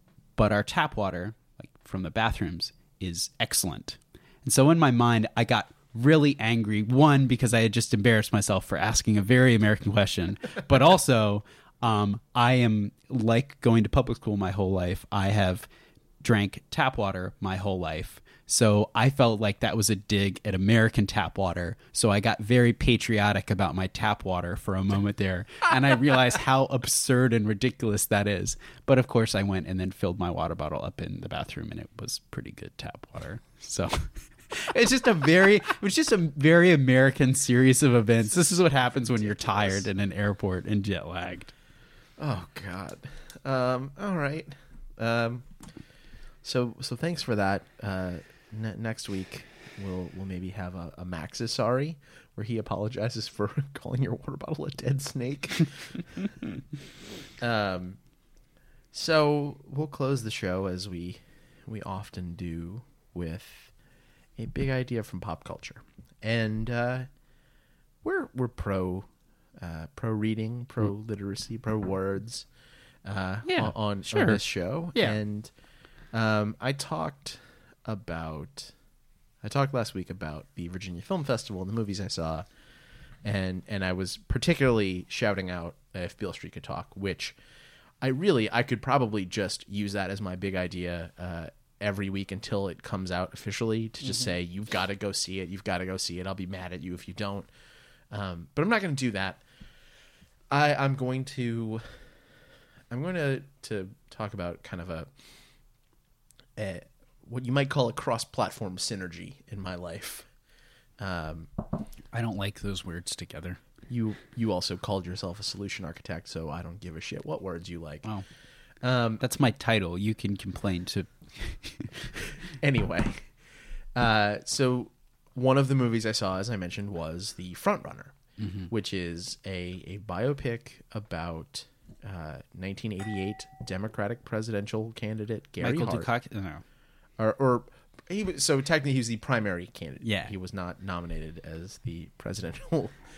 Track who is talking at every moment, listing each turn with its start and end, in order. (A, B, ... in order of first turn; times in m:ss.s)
0:00.4-0:15.7 A
0:16.2-0:41.5 A
0:39.2-0:39.8 B
0:42.2-0:45.5 B
0:46.4-0:56.4 B
0:57.4-0:58.0 B
0:58.9-1:03.7 B
1:04.4-1:07.1 B
1:08.0-1:12.5 B
1:13.0-1:15.5 B
1:13.5-1:14.4 A
1:16.1-1:18.7 B
1:19.4-1:22.5 B
1:23.2-1:27.4 B
1:28.0-1:37.5 B
1:38.1-1:39.4 B
1:40.5-1:41.8 B
1:42.9-1:45.1 B
1:46.6-1:50.3 B
1:51.0-1:51.5 B
1:52.1-1:53.6 A
1:53.9-1:58.1 B
1:58.8-1:59.2 B
1:59.2-2:02.1 A
2:02.4-2:03.4 B
2:03.9-2:08.2 B
2:08.4-2:08.7 A
2:08.7-2:16.1 B
2:15.6-2:16.6 A
2:17.2-2:23.0 B
2:20.0-2:20.3 A